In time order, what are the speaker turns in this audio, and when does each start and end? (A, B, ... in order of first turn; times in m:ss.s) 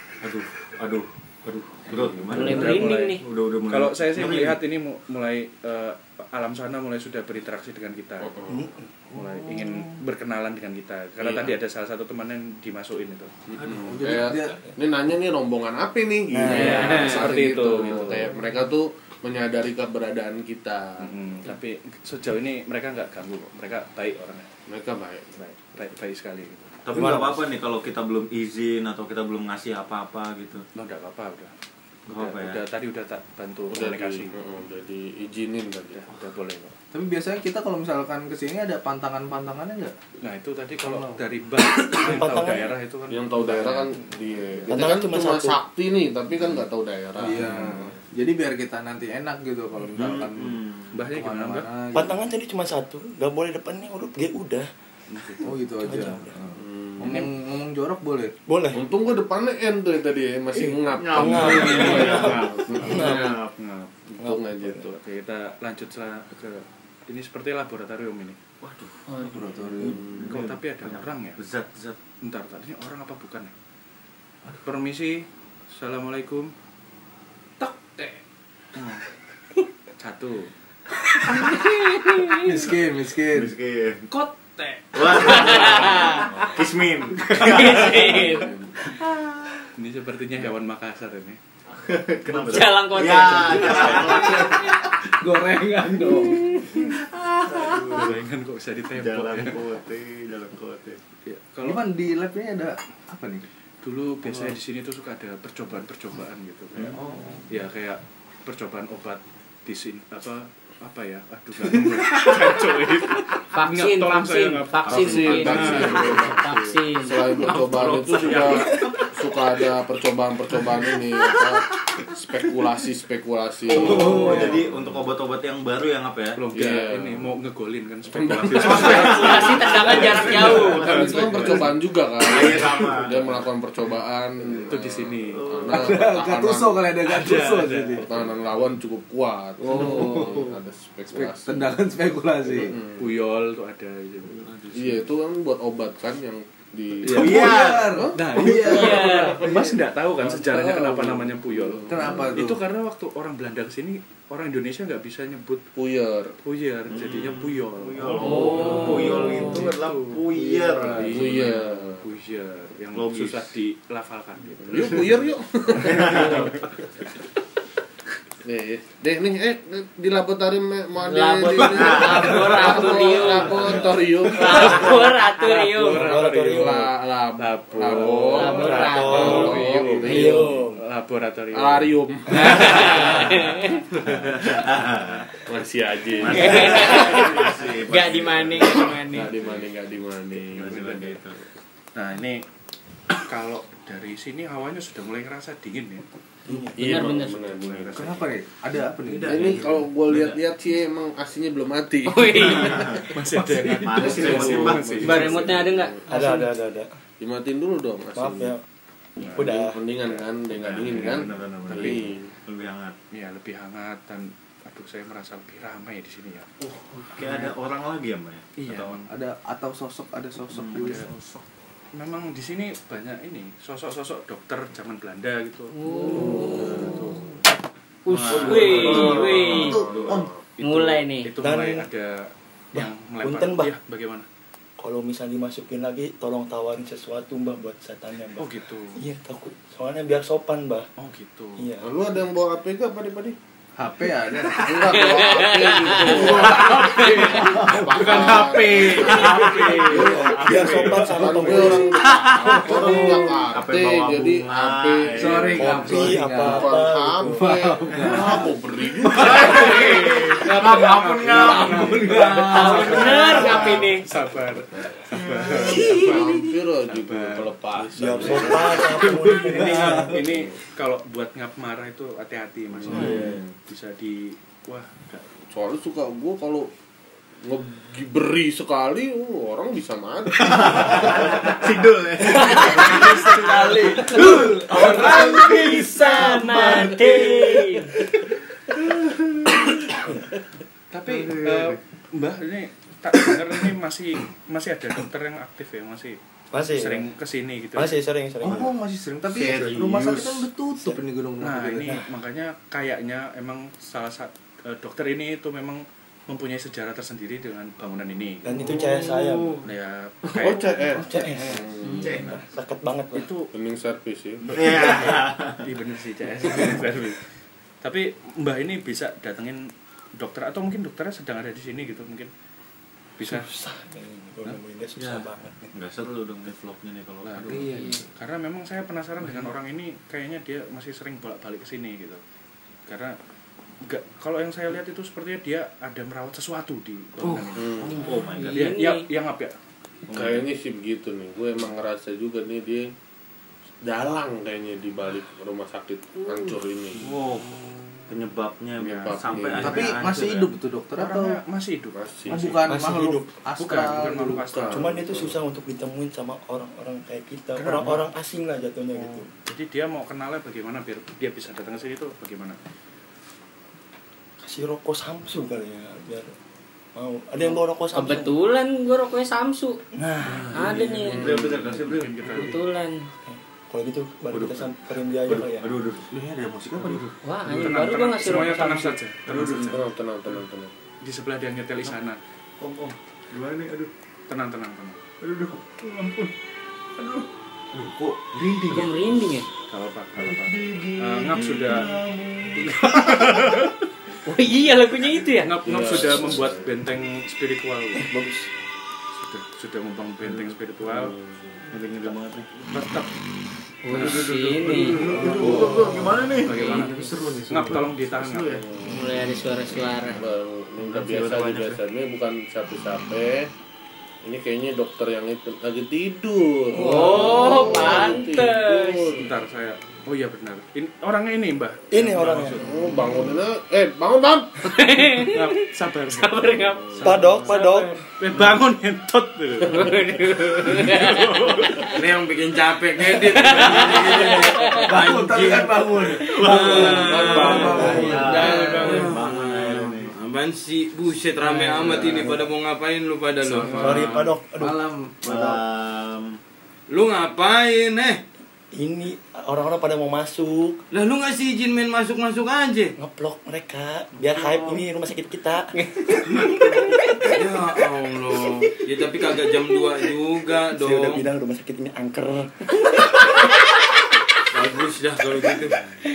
0:00.2-0:04.6 A
0:02.3-0:03.2 B
0:02.4-0:08.3 C
0:02.5-0:02.9 D
0:08.2-0:08.6 E
0:08.5-0:08.9 F
0:09.1-0:13.6 C
0:09.1-0:09.6 D
0:11.2-0:11.5 E
0:13.6-0:21.1 E
0:13.6-0:14.7 D
0:16.3-0:16.9 F
0:16.4-0:18.4 C
0:16.5-0:17.6 D
0:21.0-0:24.5 C
0:24.7-0:25.4 E
0:25.4-0:26.8 C
0:26.8-0:30.6 A
0:26.9-0:27.4 F
0:30.8-0:31.5 C
0:32.1-0:32.6 A
0:32.1-0:34.3 C
0:33.7-0:36.0 E
0:36.0-0:36.8 C
0:36.9-0:40.0 D
0:40.2-0:44.0 C
0:40.8-0:41.3 D
0:41.9-0:42.7 F
0:43.1-0:47.9 E
0:44.7-0:45.6 F
0:47.2-0:52.2 D
0:49.9-0:51.0 A
0:50.9-0:51.7 C
0:51.9-0:54.7 F
0:55.1-0:55.6 C
0:55.4-0:58.3 D
0:55.8-0:56.4 F
0:56.6-0:57.3 E
0:58.5-0:58.8 F
0:58.7-1:03.1 E
1:00.9-1:03.6 A
1:01.1-1:03.4 F
1:01.7-1:03.0 C
1:02.9-1:03.4 B
1:03.6-1:08.4 C
1:04.2-1:04.8 E
1:04.2-1:04.9 F
1:08.6-1:09.1 A
1:09.1-1:09.4 B
1:09.2-1:10.1 D
1:09.8-1:10.5 E
1:10.2-1:12.0 A
1:10.2-1:11.4 C
1:12.2-1:13.5 C
1:14.6-1:16.5 C
1:17.6-1:18.2 D
1:18.8-1:19.0 C
1:20.0-1:20.5 C
1:21.5-1:22.4 B
1:22.4-1:23.6 D
1:23.3-1:24.1 A
1:24.1-1:25.7 D
1:24.9-1:29.7 A
1:25.2-1:26.5 B
1:27.4-1:28.5 B
1:27.8-1:28.8 E
1:29.8-1:31.4 C
1:31.7-1:34.7 A
1:32.5-1:34.1 B
1:33.4-1:36.8 D
1:33.5-1:34.2 C
1:36.8-1:38.1 A
1:37.8-1:39.6 C
1:39.0-1:41.0 A
1:41.3-1:41.8 C
1:41.6-1:43.4 D
1:43.8-1:56.4 C
1:44.2-1:44.6 D
1:46.8-1:47.0 A
1:47.0-1:47.5 D
1:53.5-1:57.4 B
1:54.9-2:04.6 E
1:57.4-1:58.9 C
2:03.7-2:06.4 A
2:03.7-2:04.6 D
2:04.0-2:04.6 C
2:06.4-2:11.7 C
2:06.5-2:07.3 E
2:08.1-2:16.8 E
2:08.5-2:13.4 A
2:08.6-2:10.9 B
2:14.7-2:15.4 C
2:15.3-2:16.0 A
2:15.8-2:18.1 D
2:17.1-2:18.3 C
2:18.0-2:21.6 E
2:19.6-2:20.5 D
2:19.8-2:20.4 A
2:21.1-2:22.8 D
2:22.6-2:23.0 E
2:23.0-2:24.9 C
2:24.5-2:24.8 A
2:24.7-2:29.7 E
2:27.1-2:29.4 D
2:27.1-2:27.6 C
2:27.1-2:29.8 A
2:28.2-2:35.6 C
2:28.6-2:29.4 B
2:30.2-2:31.2 D
2:31.5-2:32.2 E
2:31.9-2:32.6 D
2:35.8-2:36.4 E
2:36.4-2:40.3 C
2:36.9-2:41.4 A
2:38.2-2:39.6 B
2:38.2-2:39.3 D
2:40.3-2:41.4 D
2:40.9-2:45.1 C
2:41.0-2:42.1 E
2:43.0-2:43.5 A
2:44.7-2:46.5 E
2:45.8-2:46.7 A
2:45.8-2:46.6 C
2:48.4-2:55.1 E
2:51.0-2:56.0 B
2:52.4-2:52.9 D
2:55.5-3:03.5 C
2:55.9-2:56.9 F
2:56.2-3:00.7 E
2:58.3-3:00.5 B
2:58.4-3:00.8 F
3:01.5-3:03.4 E
3:02.3-3:03.8 B
3:04.0-3:05.5 A
3:04.1-3:04.3 C
3:05.4-3:07.6 E
3:06.2-3:09.6 A
3:06.3-3:09.3 B
3:09.1-3:10.8 E
3:10.4-3:11.4 A
3:10.6-3:11.2 C
3:12.0-3:12.4 C
3:13.2-3:16.0 C
3:16.5-3:16.8 F
3:16.7-3:18.2 E
3:16.8-3:17.4 B
3:17.5-3:18.3 C
3:17.9-3:19.7 D
3:19.1-3:19.7 C
3:19.2-3:22.8 E
3:19.2-3:20.4 A
3:22.1-3:23.0 B
3:22.4-3:25.4 A
3:22.9-3:25.6 C
3:23.4-3:24.6 D
3:24.0-3:26.3 E
3:25.0-3:26.0 B
3:26.1-3:26.9 F
3:27.2-3:28.6 E
3:28.2-3:28.6 F
3:29.2-3:29.5 C
3:29.3-3:32.3 E
3:29.4-3:29.8 F
3:30.5-3:33.0 A
3:33.1-3:36.5 C
3:36.6-3:39.0 A
3:38.6-3:39.1 C
3:39.1-3:41.1 D
3:40.6-3:41.4 A
3:40.7-3:41.1 C
3:41.9-3:47.2 C
3:45.7-3:46.9 B
3:46.4-3:46.9 E
3:48.0-3:49.8 B
3:48.1-3:50.3 A
3:48.3-3:49.7 C
3:48.5-3:50.4 E
3:50.6-3:54.2 C
3:50.6-3:51.3 B
3:51.4-3:51.9 F
3:52.7-3:53.7 F
3:54.8-4:00.9 F
3:58.4-3:59.0 C
4:01.0-4:01.7 C
4:01.6-4:01.9 F
4:01.8-4:03.4 E
4:03.8-4:04.9 D
4:04.6-4:15.6 E
4:04.9-4:07.4 B
4:06.0-4:08.8 D
4:06.3-4:10.8 C
4:07.0-4:11.8 A
4:08.6-4:09.7 G
4:09.5-4:09.9 D
4:09.9-4:12.0 F
4:11.9-4:12.9 G
4:12.5-4:16.1 A
4:15.2-4:18.6 D
4:15.6-4:17.4 F
4:16.4-4:19.5 E
4:17.9-4:18.4 A
4:19.1-4:23.8 A
4:19.2-4:23.6 D
4:19.4-4:19.8 C
4:20.6-4:27.5 C
4:21.2-4:21.6 G
4:22.5-4:24.0 B
4:25.1-4:26.0 A
4:25.6-4:29.0 E
4:28.0-4:30.2 F
4:28.2-4:35.4 C
4:29.0-4:30.2 D
4:32.8-4:33.5 E
4:32.9-4:33.3 A
4:35.5-4:36.7 E
4:37.4-4:41.7 E
4:40.4-4:47.7 A
4:42.4-4:45.4 D
4:42.9-4:44.2 C
4:44.8-4:48.0 B
4:48.7-4:49.8 A
4:50.9-4:56.2 C
4:51.1-4:51.8 A
4:56.5-4:57.1 F
4:56.8-4:58.0 C
4:57.7-4:58.7 F
4:58.4-5:02.0 D
4:59.3-5:00.4 A
5:01.4-5:08.8 C
5:08.4-5:09.6 F
5:08.6-5:09.7 A
5:09.6-5:11.1 C
5:10.3-5:10.6 A
5:10.4-5:12.1 E
5:10.9-5:13.3 F
5:11.8-5:12.2 B
5:12.0-5:12.4 A
5:13.1-5:13.5 C
5:13.5-5:14.8 E
5:14.5-5:17.2 C
5:14.6-5:15.6 A
5:17.8-5:22.3 C
5:23.2-5:23.5 C
5:23.2-5:25.7 F
5:25.0-5:27.8 A
5:27.3-5:32.2 C
5:27.4-5:28.1 D
5:32.9-5:33.2 C
5:33.8-5:38.0 C
5:37.5-5:38.0 E
5:37.8-5:39.0 B
5:38.0-5:38.7 A
5:38.5-5:39.5 C
5:40.1-5:40.5 A
5:40.1-5:42.9 E
5:43.8-5:47.1 E
5:46.2-5:46.6 B
5:47.0-5:47.5 A
5:48.1-5:50.5 A
5:48.8-5:50.0 E
5:49.6-5:51.4 D
5:51.0-5:52.6 C
5:51.9-5:52.6 E
5:52.3-5:54.5 D
5:52.7-5:53.3 F
5:53.6-5:55.0 C
5:54.2-5:55.4 E
5:54.7-5:59.3 F
5:57.6-5:58.1 C
5:59.0-6:02.6 C
6:04.4-6:06.3 F
6:07.0-6:08.4 F
6:07.9-6:09.8 B
6:10.0-6:10.9 F
6:10.2-6:10.8 C
6:10.3-6:12.5 A
6:10.5-6:11.2 B
6:11.0-6:11.7 E
6:11.7-6:12.6 C
6:12.3-6:13.1 B
6:13.2-6:15.8 F
6:14.3-6:14.7 A
6:15.3-6:16.1 A
6:16.1-6:17.1 D
6:16.8-6:17.0 A
6:17.2-6:19.0 B
6:17.5-6:19.8 C
6:19.3-6:19.8 A
6:19.6-6:20.7 E
6:21.0-6:22.2 C
6:22.6-6:23.9 A
6:24.3-6:25.0 C
6:25.2-6:26.3 A
6:27.0-6:29.2 A
6:28.7-6:29.5 B
6:29.7-6:31.9 C
6:30.2-6:33.6 A
6:32.7-6:33.5 C
6:32.8-6:33.4 B
6:34.3-6:35.5 B
6:35.4-6:38.1 C
6:35.6-6:36.7 E
6:38.0-6:38.5 F
6:39.2-6:41.2 C
6:41.1-6:41.4 E
6:41.7-6:42.5 A
6:42.6-6:43.1 C
6:43.8-6:45.7 B
6:43.9-6:48.7 A
6:43.9-6:47.0 C
6:45.2-6:45.8 D
6:45.4-6:45.8 E
6:46.5-6:47.0 B
6:47.5-6:48.6 C
6:48.6-6:49.0 E
6:48.9-6:50.2 B
6:50.1-6:53.5 E
6:50.8-6:51.8 A
6:54.2-6:59.3 E
6:56.7-6:59.2 B
6:56.8-6:57.8 D
6:59.2-7:02.8 C
7:01.9-7:02.6 F
7:02.6-7:04.7 E
7:04.6-7:08.0 B
7:05.1-7:07.4 C
7:07.0-7:08.0 F
7:08.2-7:11.9 C
7:09.6-7:11.8 B
7:11.8-7:24.3 G
7:11.9-7:12.6 A
7:13.2-7:14.9 B
7:13.4-7:14.4 A
7:14.8-7:19.1 D
7:16.2-7:20.1 A
7:17.0-7:17.9 E
7:18.4-7:19.1 C
7:21.4-7:22.4 D
7:23.6-7:24.1 D
7:23.7-7:24.8 F
7:24.6-7:25.6 D
7:25.2-7:26.4 A
7:26.9-7:28.2 G
7:28.7-7:30.8 F
7:30.9-7:32.9 G
7:33.0-7:36.6 F
7:34.2-7:34.8 A
7:36.3-7:41.3 G
7:40.7-7:43.1 F
7:44.5-7:45.8 G